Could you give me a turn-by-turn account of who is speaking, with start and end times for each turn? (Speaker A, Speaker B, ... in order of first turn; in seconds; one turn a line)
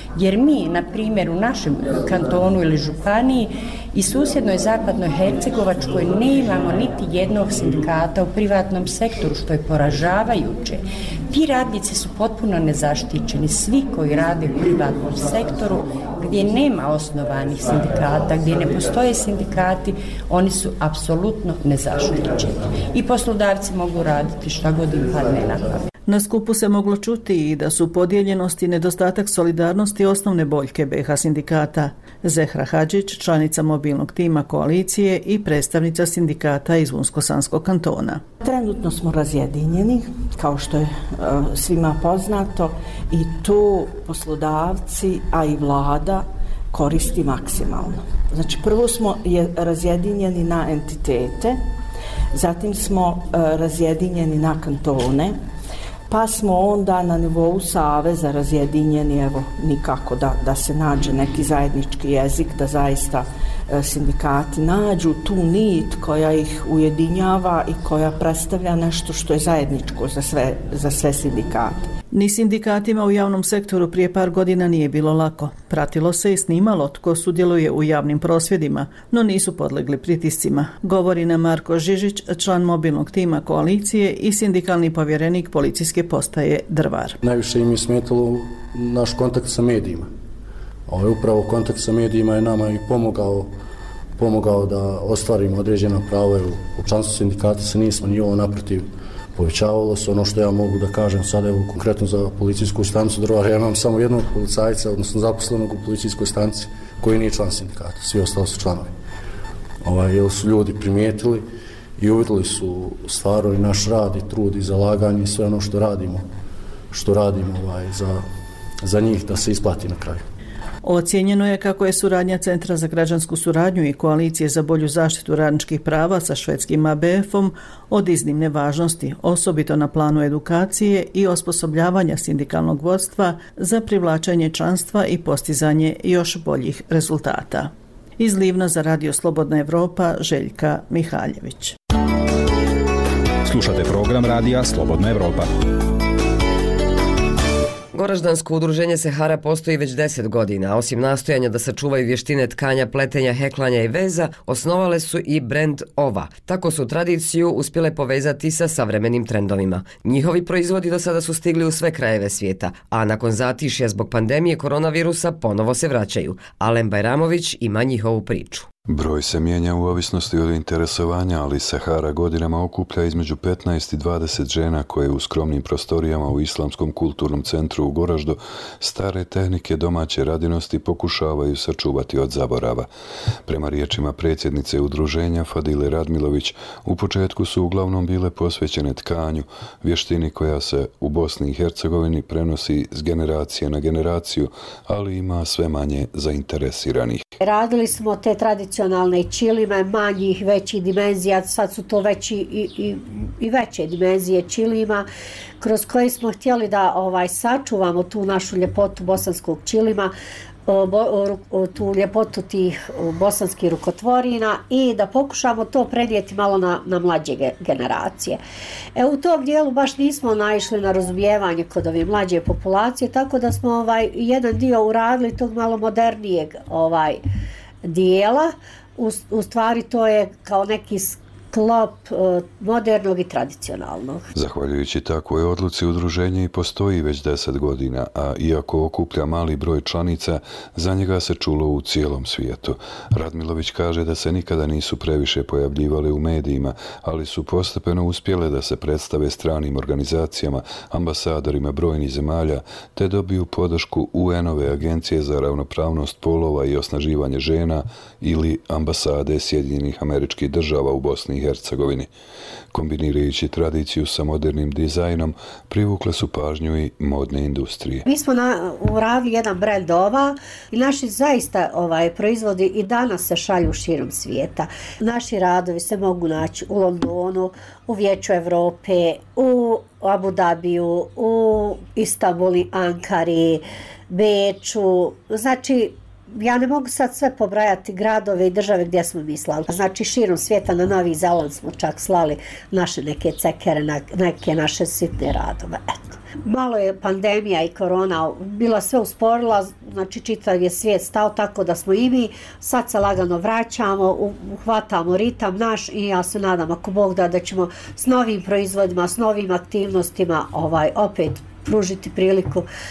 Speaker A: 0.1-25.8
Speaker B: 26.1-38.2
Speaker C: 38.4-51.6
Speaker C: 52.3-55.4
Speaker C: 56.1-71.9
Speaker B: 72.1-87.2
Speaker D: 87.2-90.1
Speaker D: 90.9-93.5
Speaker D: 94.2-108.9
Speaker D: 109.8-111.5
Speaker D: 112.0-116.3
Speaker D: 116.9-118.2
Speaker D: 118.8-120.2
Speaker B: 120.8-141.7
Speaker E: 143.4-145.5
Speaker F: 147.9-168.7
Speaker G: 168.9-182.9
Speaker G: 183.4-197.2
Speaker H: 197.4-205.1
Speaker H: 205.6-210.1
Speaker H: 210.7-218.4
Speaker H: 218.9-227.2
Speaker H: 227.8-234.2
Speaker G: 234.3-262.1
Speaker G: 262.7-268.0
Speaker H: 268.0-312.7